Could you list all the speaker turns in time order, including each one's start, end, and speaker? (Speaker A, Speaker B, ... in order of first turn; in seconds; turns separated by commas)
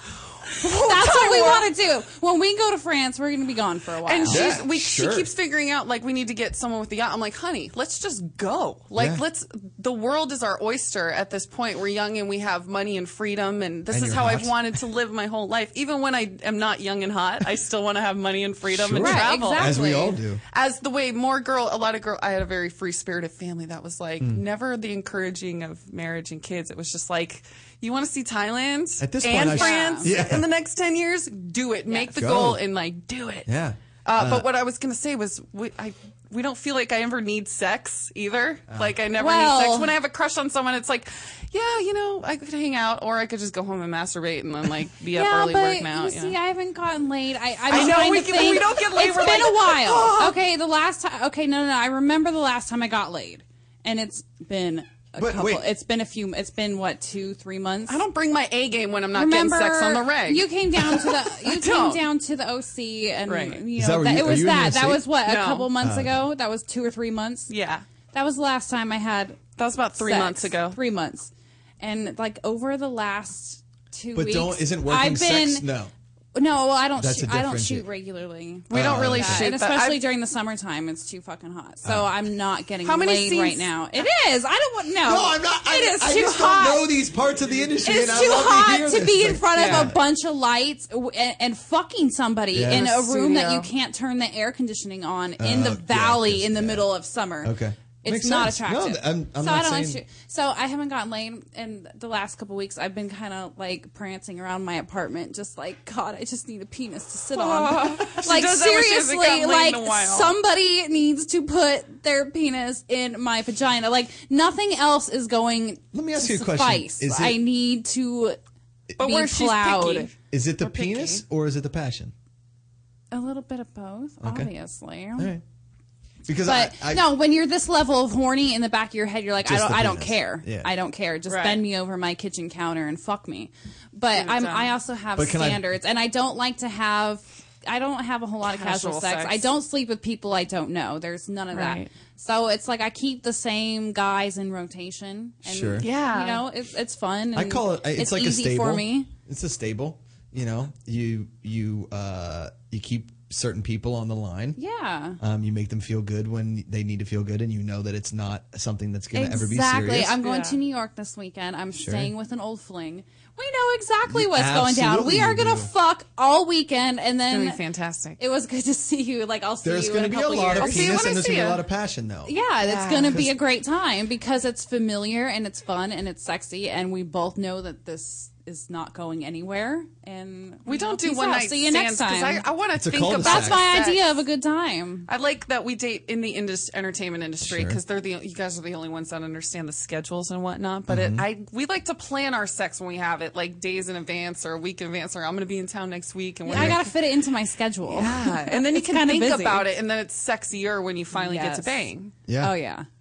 Speaker A: 0.6-1.7, Speaker B: 0.6-4.5, Speaker A: 4.0-19.8, Speaker C: 4.2-5.3, Speaker C: 8.9-9.2, Speaker C: 13.9-14.7, Speaker C: 18.7-20.4, Speaker B: 19.0-20.2, Speaker A: 20.5-33.5, Speaker C: 29.0-30.5, Speaker B: 29.4-30.1, Speaker C: 32.1-32.6, Speaker C: 33.4-34.5, Speaker A: 34.0-46.4, Speaker C: 38.7-39.0, Speaker B: 39.2-40.0, Speaker B: 45.1-58.0, Speaker A: 47.7-50.4, Speaker C: 55.2-55.7, Speaker A: 57.9-62.0, Speaker B: 59.1-67.5, Speaker A: 63.3-63.6, Speaker C: 63.7-65.1, Speaker A: 65.2-65.7, Speaker C: 65.8-66.2, Speaker A: 67.5-67.8, Speaker B: 68.1-69.4, Speaker A: 69.6-70.8, Speaker B: 70.0-75.7, Speaker C: 74.1-75.9, Speaker B: 76.3-86.9, Speaker C: 77.0-77.9, Speaker C: 78.7-79.5, Speaker A: 78.7-80.0, Speaker C: 81.8-82.1, Speaker A: 82.8-83.7, Speaker C: 85.0-90.0, Speaker B: 87.8-118.4, Speaker A: 89.5-89.9, Speaker C: 92.5-92.9, Speaker A: 92.7-93.7, Speaker C: 95.4-96.9, Speaker C: 97.4-100.0, Speaker A: 107.3-110.3, Speaker C: 115.9-117.4, Speaker A: 119.0-121.2, Speaker B: 119.0-120.1, Speaker C: 120.3-122.1, Speaker B: 123.1-125.3, Speaker C: 124.2-124.5, Speaker C: 125.2-125.4, Speaker C: 126.2-127.1, Speaker B: 126.4-149.1, Speaker C: 129.4-130.7, Speaker A: 131.3-131.6, Speaker A: 134.1-134.7, Speaker C: 135.2-135.7, Speaker A: 138.4-139.4, Speaker A: 141.5-141.9, Speaker C: 145.4-145.9, Speaker A: 145.8-146.4, Speaker C: 147.3-154.6, Speaker B: 154.6-155.2, Speaker C: 155.2-160.2, Speaker B: 159.1-167.6, Speaker A: 160.2-160.6, Speaker C: 161.8-162.1, Speaker C: 164.1-165.7, Speaker A: 167.3-168.2, Speaker B: 168.2-171.2, Speaker C: 169.6-172.3, Speaker A: 170.5-171.6, Speaker B: 172.2-182.4, Speaker A: 172.6-173.2, Speaker C: 173.1-173.4, Speaker A: 180.7-184.2, Speaker C: 182.7-183.7, Speaker B: 183.2-185.1, Speaker A: 185.1-196.9, Speaker C: 187.4-187.8, Speaker C: 190.9-191.2, Speaker B: 196.5-199.7, Speaker C: 196.5-196.8, Speaker A: 197.9-202.1, Speaker B: 201.1-201.8, Speaker C: 202.3-202.6, Speaker B: 202.4-202.8